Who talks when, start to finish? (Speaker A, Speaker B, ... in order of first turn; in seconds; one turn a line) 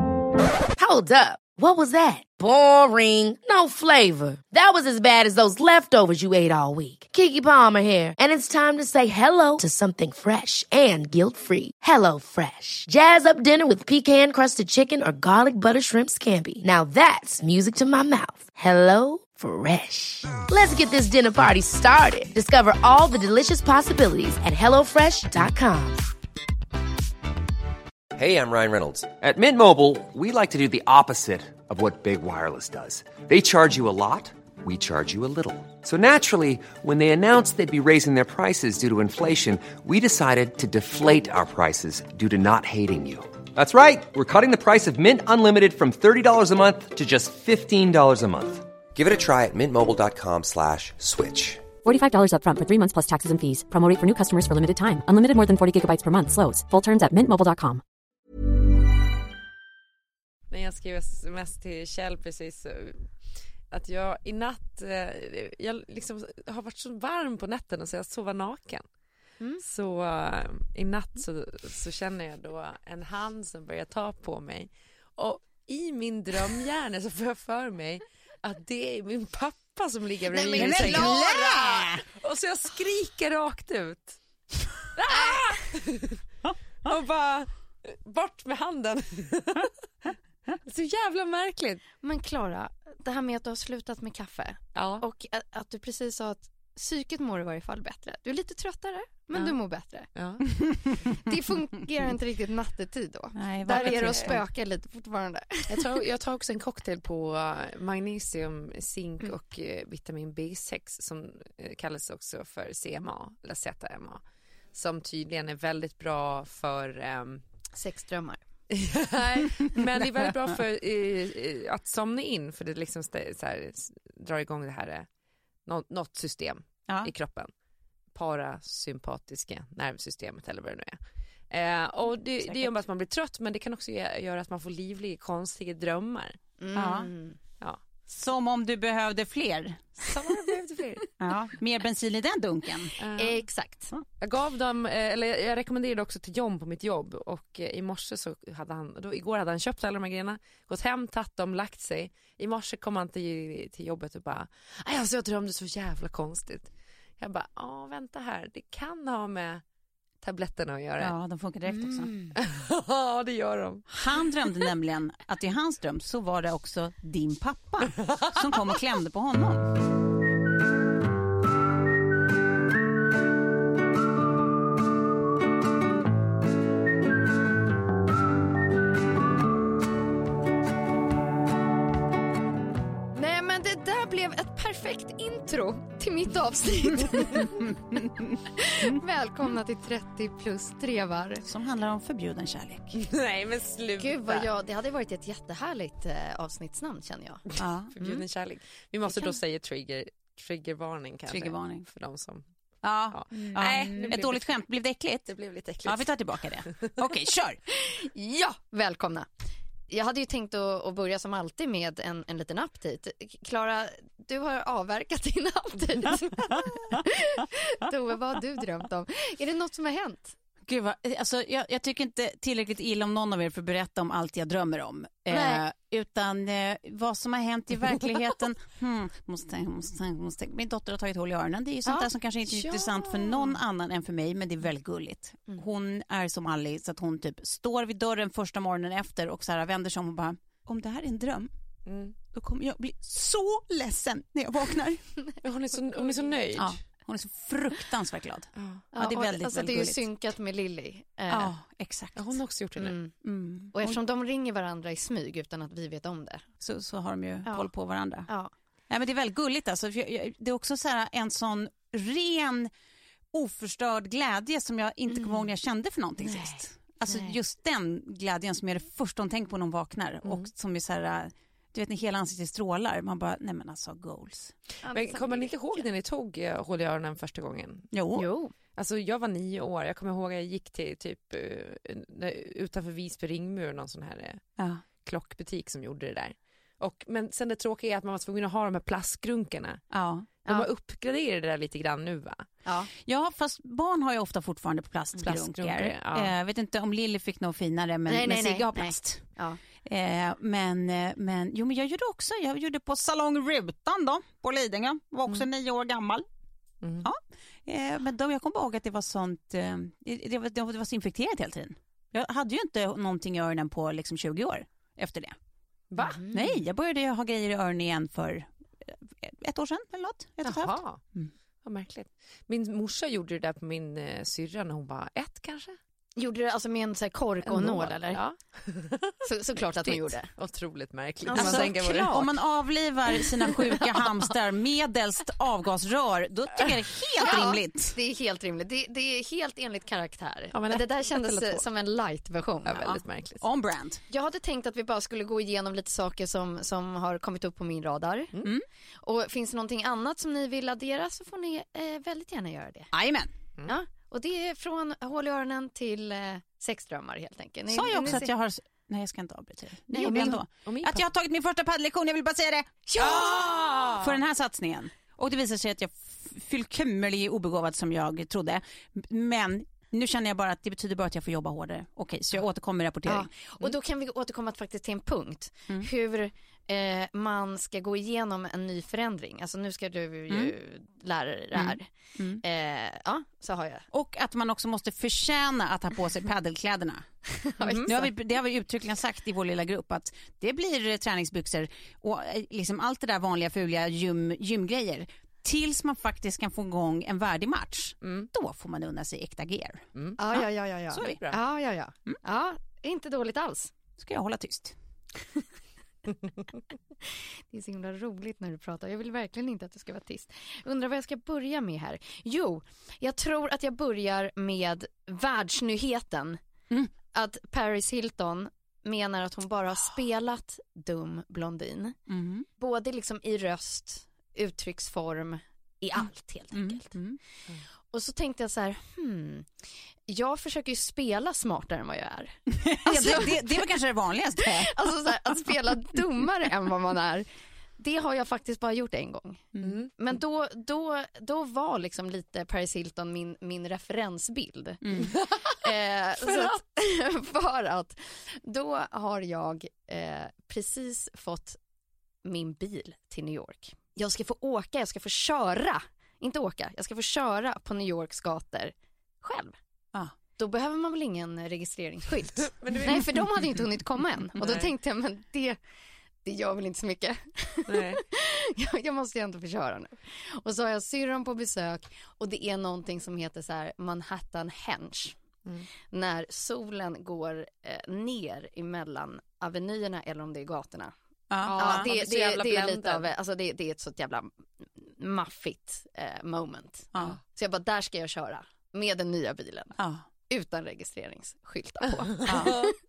Speaker A: 0.8-26.0
Speaker B: 28.1-51.7
Speaker C: 51.8-57.8
Speaker D: 60.5-63.1
Speaker D: 63.7-68.9
Speaker D: 69.6-81.3
Speaker E: 80.3-81.8
Speaker F: 80.6-82.0
Speaker D: 82.1-84.2
Speaker D: 84.9-86.2
Speaker E: 85.1-85.6
Speaker D: 86.8-89.7
Speaker D: 90.7-91.8
Speaker E: 92.0-100.1
Speaker D: 94.8-95.0
Speaker D: 100.1-100.4
Speaker F: 100.6-101.0
Speaker E: 101.2-105.8
Speaker F: 103.3-104.4
Speaker D: 103.7-104.4
Speaker D: 105.7-114.2
Speaker D: 114.7-117.4
Speaker E: 117.8-118.4
Speaker D: 118.7-125.1
Speaker D: 125.7-127.5
Speaker D: 128.1-136.4
Speaker E: 136.6-137.4
Speaker F: 136.8-137.1
Speaker F: 138.1-139.9
Speaker D: 140.0-141.1
Speaker F: 141.2-142.9
Speaker D: 143.0-143.4
Speaker E: 143.2-143.9
Speaker D: 144.2-159.6
Speaker D: 160.2-161.1
Speaker F: 161.0-162.1
Speaker E: 161.7-162.3
Speaker D: 162.4-163.9
Speaker F: 163.9-169.7
Speaker D: 168.0-168.7
Speaker E: 183.2-187.7
Speaker F: 187.9-188.4
Speaker E: 188.5-191.4
Speaker F: 191.4-193.1
Speaker D: 192.9-194.4
Speaker E: 194.0-198.2
Speaker D: 197.6-202.5
Speaker F: 197.6-197.9
Speaker E: 199.1-199.4
Speaker F: 201.3-201.9
Speaker F: 202.8-205.3
Speaker D: 203.1-204.5
Speaker E: 203.3-204.2
Speaker D: 205.3-206.1
Speaker F: 205.8-207.6
Speaker D: 206.7-206.9
Speaker E: 207.7-209.3
Speaker E: 209.9-220.4
Speaker F: 220.7-241.5
Speaker E: 225.3-225.6
Speaker D: 232.5-233.5
Speaker D: 241.9-242.1
Speaker F: 242.3-245.1
Speaker D: 245.4-246.8
Speaker E: 246.0-246.3
Speaker F: 246.6-250.1
Speaker D: 248.6-248.8
Speaker E: 248.9-251.5
Speaker F: 251.3-252.3
Speaker D: 252.2-253.0
Speaker E: 252.8-253.1
Speaker F: 253.2-254.0
Speaker E: 253.7-256.4
Speaker F: 256.6-258.3
Speaker F: 258.9-262.7
Speaker F: 263.3-274.6
Speaker E: 265.1-265.5
Speaker E: 266.2-267.4
Speaker D: 270.2-270.5
Speaker E: 274.8-275.9
Speaker D: 274.9-277.9
Speaker F: 277.9-278.3
Speaker E: 278.1-278.5
Speaker D: 278.8-284.4
Speaker F: 284.6-284.8
Speaker D: 285.0-289.8
Speaker F: 289.9-290.3
Speaker D: 290.4-292.4
Speaker F: 293.0-299.3
Speaker D: 295.2-296.3
Speaker E: 298.1-299.6
Speaker F: 299.8-306.2
Speaker D: 306.8-307.1
Speaker F: 307.0-315.4
Speaker D: 315.9-316.2
Speaker E: 316.0-316.6
Speaker F: 316.3-321.3
Speaker D: 320.4-321.0
Speaker D: 321.6-325.8
Speaker E: 326.2-328.2
Speaker D: 327.4-329.1
Speaker E: 329.2-330.3
Speaker D: 329.8-332.3
Speaker E: 331.3-332.1
Speaker F: 331.3-337.9
Speaker E: 337.2-342.9
Speaker D: 340.5-341.6
Speaker D: 342.7-343.4
Speaker F: 342.8-344.0
Speaker E: 344.1-348.3
Speaker E: 349.0-352.9
Speaker F: 352.9-353.3
Speaker E: 353.7-358.3
Speaker F: 357.7-363.4
Speaker E: 359.9-360.4
Speaker D: 360.0-361.1
Speaker E: 362.9-363.9
Speaker D: 363.0-364.1
Speaker F: 364.0-373.3
Speaker E: 373.1-381.9
Speaker F: 380.3-380.6
Speaker F: 381.6-382.4
Speaker E: 382.4-383.9
Speaker F: 383.9-387.1
Speaker E: 387.4-388.1
Speaker D: 387.6-387.9
Speaker F: 387.8-401.2
Speaker D: 398.0-398.3
Speaker E: 400.2-403.7
Speaker D: 400.9-401.4
Speaker F: 404.0-404.8
Speaker E: 407.1-416.4
Speaker E: 417.1-422.0
Speaker F: 422.1-422.5
Speaker E: 422.6-426.9
Speaker F: 426.5-427.2
Speaker E: 427.9-433.7
Speaker F: 432.6-435.4
Speaker E: 434.4-437.3
Speaker E: 437.8-451.6
Speaker D: 439.6-439.9
Speaker F: 444.8-445.1
Speaker D: 445.1-445.5
Speaker D: 446.2-446.6
Speaker E: 452.2-459.6
Speaker E: 460.4-465.6
Speaker D: 462.4-463.2
Speaker D: 464.4-464.7
Speaker E: 466.2-475.2
Speaker D: 467.7-468.0
Speaker E: 475.9-480.9
Speaker F: 481.3-481.9
Speaker E: 481.5-489.8
Speaker D: 481.5-483.1
Speaker F: 489.8-490.1
Speaker E: 490.3-492.8
Speaker D: 492.2-492.7
Speaker F: 492.3-492.6